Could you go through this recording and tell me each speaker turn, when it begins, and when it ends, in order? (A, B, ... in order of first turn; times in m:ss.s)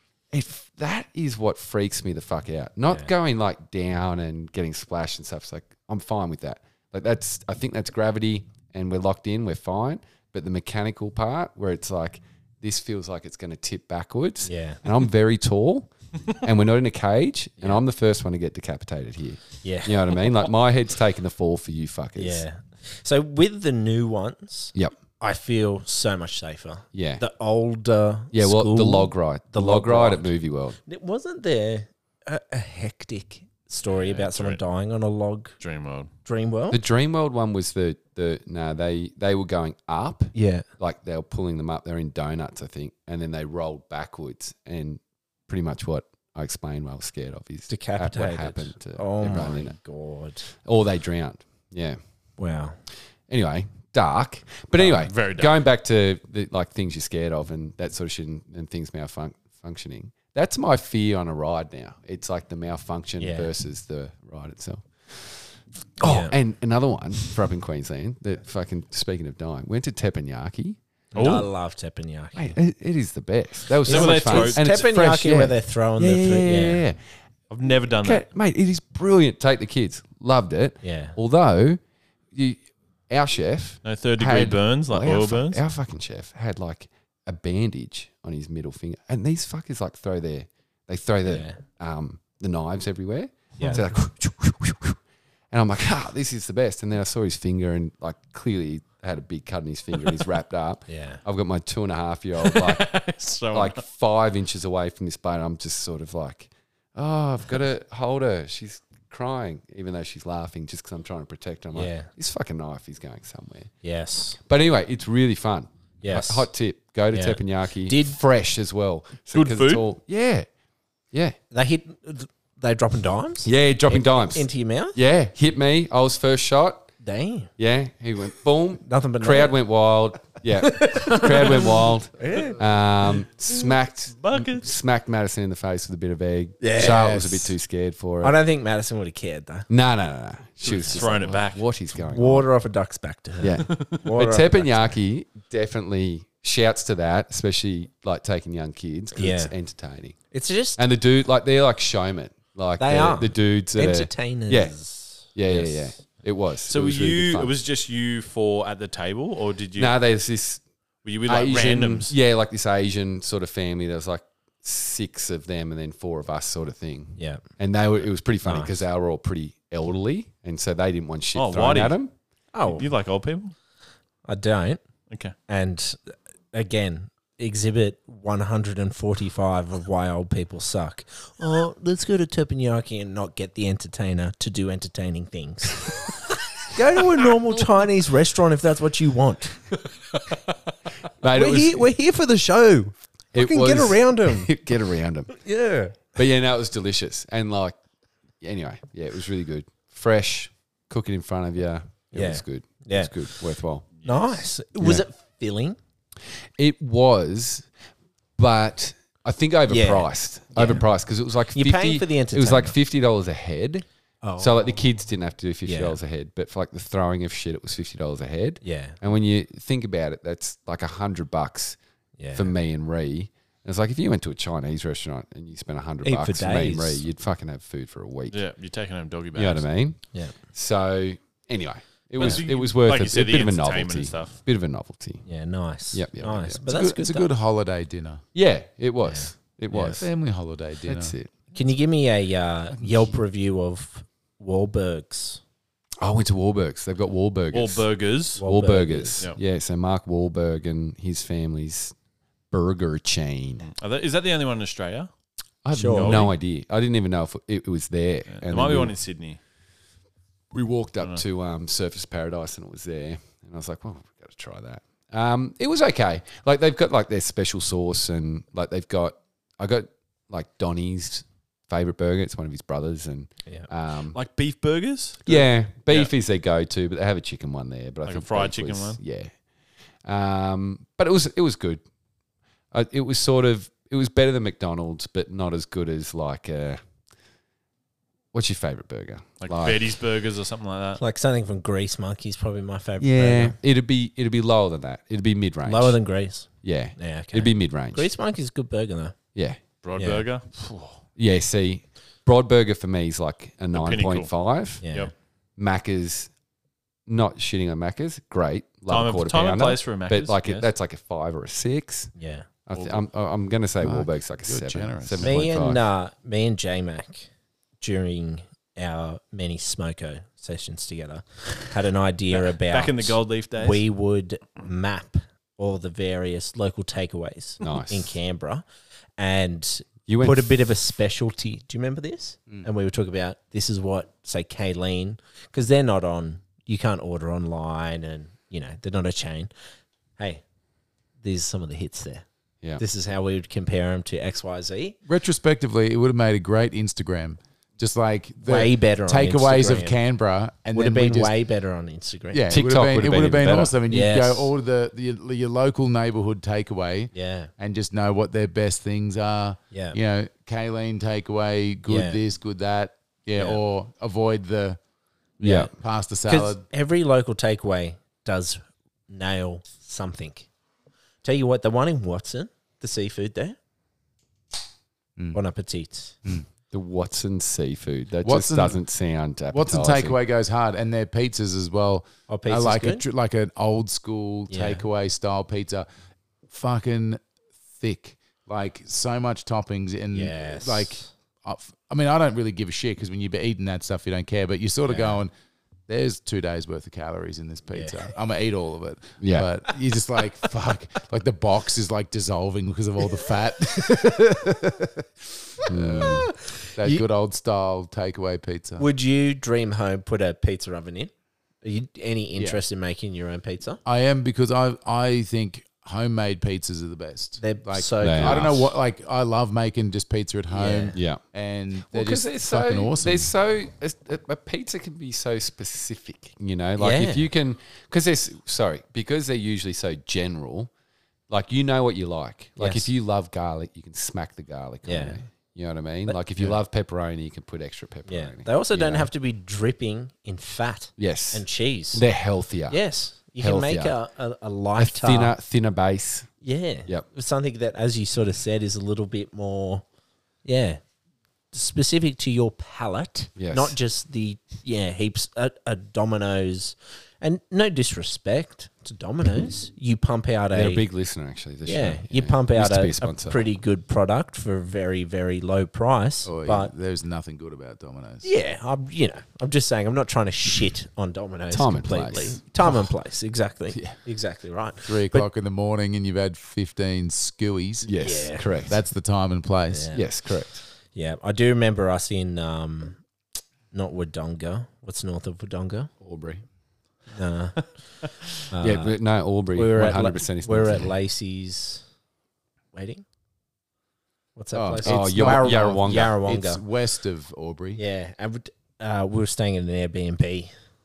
0:00.3-0:22.4 A
0:14.4-0:14.8 B
0:19.6-0:20.0 B
0:22.2-0:30.3 B
0:26.9-0:27.2 A
0:28.3-0:30.8 A
0:30.9-0:35.5 B
0:33.9-0:34.6 C
0:35.6-0:36.1 C
0:36.2-0:36.8 B
0:36.7-0:49.8 A
0:40.3-0:40.7 B
0:47.7-0:50.5 B
0:50.6-0:52.0 A
0:52.4-0:52.8 B
0:53.3-1:10.8 A
0:54.7-0:55.6 C
1:03.2-1:03.5 B
1:06.0-1:06.4 B
1:11.1-1:12.6 B
1:11.2-1:11.5 C
1:12.4-1:17.0 A
1:13.9-1:16.8 B
1:13.9-1:14.8 C
1:17.5-1:18.2 C
1:17.7-1:21.8 A
1:20.8-1:21.2 B
1:22.3-1:35.0 A
1:23.8-1:25.6 C
1:31.3-1:31.6 B
1:33.6-1:33.9 B
1:35.5-1:43.0 A
1:40.9-1:41.2 B
1:42.4-1:43.8 C
1:43.5-1:53.7 A
1:51.7-1:52.1 B
1:53.8-1:54.4 B
1:54.5-2:00.5 A
1:56.0-1:56.5 B
1:57.1-1:58.2 B
1:59.3-1:59.9 C
2:01.5-2:05.0 B
2:03.4-2:06.9 A
2:07.0-2:07.5 B
2:07.6-2:18.4 A
2:08.8-2:09.6 B
2:10.6-2:12.6 B
2:13.5-2:14.7 C
2:16.6-2:17.2 B
2:16.8-2:17.5 D
2:18.2-2:19.7 B
2:19.7-2:22.5 A
2:20.6-2:21.6 C
2:22.0-2:24.9 B
2:23.4-2:30.2 A
2:29.2-2:29.5 B
2:30.3-2:30.8 B
2:30.8-2:34.8 A
2:32.8-2:36.0 B
2:35.3-2:37.5 A
2:36.7-2:40.0 C
2:39.8-2:40.6 A
2:41.0-2:42.1 C
2:41.3-2:52.1 A
2:47.2-2:47.4 B
2:48.4-2:48.7 B
2:51.4-2:52.0 C
2:52.5-2:52.9 B
2:52.7-2:53.5 C
2:54.3-2:54.8 B
2:55.5-3:06.0 B
3:06.7-3:09.6 B
3:11.2-3:11.9 A
3:11.3-3:14.5 B
3:13.3-3:15.3 A
3:15.3-3:16.0 B
3:16.2-3:17.8 A
3:18.4-3:23.9 A
3:22.1-3:23.3 B
3:24.0-3:25.8 B
3:24.8-3:25.0 A
3:26.6-3:27.7 A
3:28.4-3:33.9 A
3:29.7-3:30.8 B
3:31.5-3:32.8 B
3:34.2-3:34.8 B
3:34.4-3:41.8 A
3:35.7-3:36.0 B
3:38.6-3:39.0 B
3:42.2-3:42.5 B
3:42.3-3:48.4 A
3:46.0-3:47.0 B
3:48.3-3:49.7 C
3:49.3-3:55.2 A
3:52.2-3:54.4 C
3:55.3-3:57.3 B
3:55.9-3:56.6 A
3:56.6-3:58.2 D
3:58.3-4:00.1 A
3:59.0-4:00.0 B
3:59.8-4:01.2 D
4:00.8-4:01.3 A
4:01.5-4:05.4 B
4:02.8-4:03.2 D
4:06.0-4:11.9 A
4:07.5-4:08.4 C
4:08.4-4:09.2 B
4:12.5-4:13.7 A
4:13.8-4:15.1 C
4:15.6-4:18.9 A
4:15.7-4:16.3 B
4:15.9-4:16.3 C
4:18.3-4:19.4 C
4:20.5-4:34.2 A
4:34.1-4:36.1 C
4:35.2-4:39.3 A
4:38.0-4:39.0 C
4:40.0-4:41.8 A
4:42.7-4:46.8 A
4:48.3-4:49.8 A
4:49.4-4:51.0 C
4:51.0-4:53.6 B
4:53.0-4:56.0 A
4:55.6-4:59.2 B
4:56.6-4:58.1 A
4:59.4-4:59.6 A
4:59.8-5:01.0 C
5:00.0-5:00.3 B
5:01.2-5:04.8 A
5:03.7-5:04.3 C
5:04.8-5:05.1 B
5:05.6-5:06.3 A
5:07.1-5:12.1 A
5:08.9-5:10.6 C
5:12.2-5:12.5 B
5:12.7-5:15.8 A
5:12.7-5:13.0 C
5:13.8-5:15.4 D
5:15.2-5:17.3 B
5:17.8-5:28.6 B
5:22.3-5:23.8 C
5:27.6-5:28.2 A
5:29.2-5:39.5 B
5:30.1-5:30.5 A
5:41.2-5:42.2 B
5:42.8-5:45.0 B
5:45.1-5:51.3 D
5:48.4-5:50.0 B
5:50.7-5:52.5 B
5:52.3-6:04.8 D
5:52.5-5:53.8 A
5:53.9-5:54.5 B
5:57.1-5:57.5 B
5:59.7-6:00.0 B
6:01.9-6:02.2 B
6:03.4-6:03.6 B
6:05.4-6:06.6 D
6:05.4-6:05.7 B
6:06.3-6:10.5 B
6:11.2-6:13.6 B
6:15.3-6:16.2 B
6:16.7-6:20.2 A
6:18.2-6:18.8 D
6:19.5-6:25.9 D
6:22.3-6:23.0 B
6:24.5-6:24.8 B
6:26.5-6:35.3 D
6:30.1-6:31.1 B
6:34.9-6:35.2 B
6:35.9-6:45.0 D
6:37.7-6:38.1 B
6:39.2-6:39.5 A
6:45.6-6:46.2 D
6:45.7-6:46.3 A
6:46.0-6:47.0 B
6:46.8-6:48.9 D
6:48.8-6:51.1 B
6:51.6-6:53.8 B
6:52.4-6:52.6 D
6:53.8-7:03.3 D
6:57.4-6:58.7 B
6:58.0-6:58.5 A
7:00.5-7:01.0 B
7:00.9-7:01.2 A
7:01.9-7:10.7 A
7:06.8-7:07.3 B
7:11.3-7:19.1 A
7:12.6-7:12.9 B
7:14.8-7:15.2 B
7:18.1-7:22.0 B
7:21.0-7:22.8 A
7:22.7-7:25.3 B
7:23.4-7:24.0 A
7:24.8-7:26.3 A
7:26.4-7:29.8 B
7:30.4-7:30.8 B
7:31.5-7:40.8 B
7:33.4-7:33.8 A
7:40.5-7:43.5 A
7:41.6-7:46.7 B
7:46.2-7:48.3 D
7:48.2-7:55.3 B
7:51.5-7:52.4 A
7:54.8-7:57.9 D
7:57.8-7:58.8 A
7:58.0-7:58.5 B
7:58.7-7:59.9 D
7:59.7-8:00.0 B
7:59.9-8:00.6 A
8:00.9-8:03.0 B
8:03.7-8:05.9 B
8:06.0-8:06.4 A
8:07.1-8:07.7 B
8:08.5-8:09.0 B
8:08.6-8:10.9 A
8:09.5-8:11.8 B
8:12.7-8:13.0 B
8:14.4-8:16.6 B
8:14.6-8:17.8 D
8:14.7-8:16.2 A
8:17.8-8:20.5 B